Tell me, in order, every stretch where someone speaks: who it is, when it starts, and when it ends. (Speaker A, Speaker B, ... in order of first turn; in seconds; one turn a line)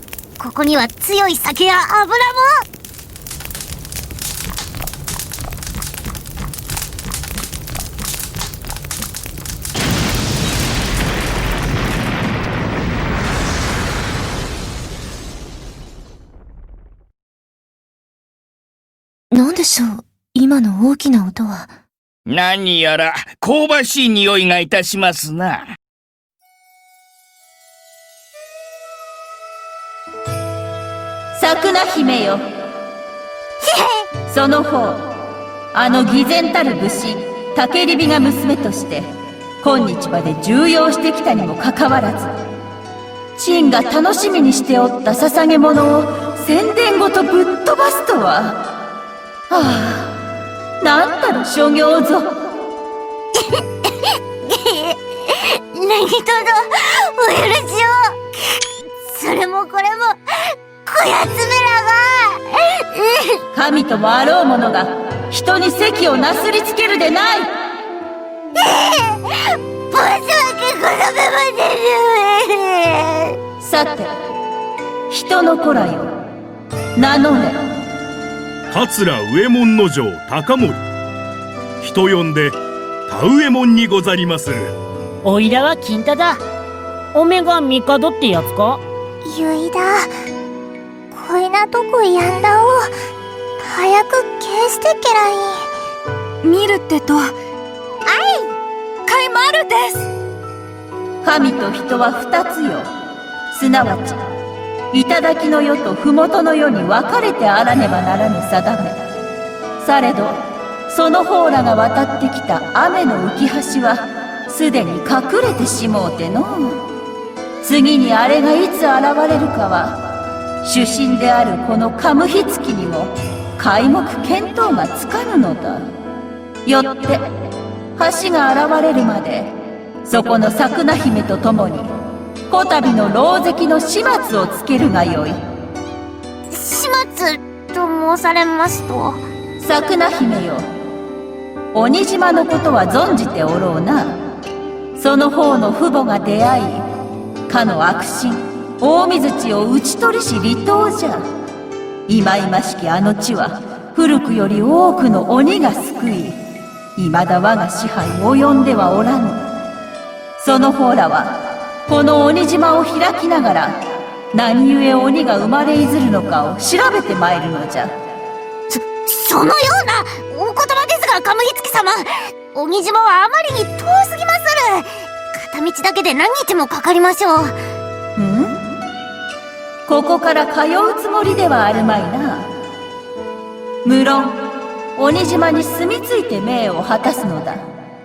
Speaker A: 0.4-2.6
Speaker B: 19.3-21.7
Speaker C: 22.2-25.6
Speaker D: 31.3-32.4
Speaker D: 34.3-35.1
Speaker D: 35.7-42.3
Speaker D: 43.4-48.6
Speaker D: 49.5-50.1
Speaker D: 50.8-52.3
Speaker A: 53.4-63.4
Speaker D: 63.5-67.5
Speaker A: 68.6-73.4
Speaker D: 73.6-74.2
Speaker D: 75.1-76.1
Speaker D: 77.0-77.6
Speaker E: 78.7-80.8
Speaker E: 81.8-84.8
Speaker F: 85.2-86.4
Speaker F: 87.1-88.8
Speaker A: 89.2-90.1
Speaker A: 91.1-92.9
Speaker A: 93.6-95.7
Speaker A: 98.1-98.5
Speaker D: 101.2-102.9
Speaker D: 103.5-104.2
Speaker D: 104.9-109.0
Speaker D: 109.8-116.8
Speaker D: 117.6-120.1
Speaker D: 120.6-125.9
Speaker D: 126.6-127.3
Speaker D: 128.0-131.9
Speaker D: 132.5-135.4
Speaker A: 136.5-139.2
Speaker D: 139.6-140.7
Speaker D: 141.7-144.2
Speaker D: 144.9-146.8
Speaker D: 147.5-151.2
Speaker D: 152.1-156.4
Speaker D: 156.9-159.4
Speaker D: 160.4-163.8
Speaker D: 164.3-167.9
Speaker A: 168.7-177.5
Speaker D: 178.2-178.6
Speaker D: 179.9-182.5
Speaker D: 183.8-184.4
Speaker D: 184.9-187.6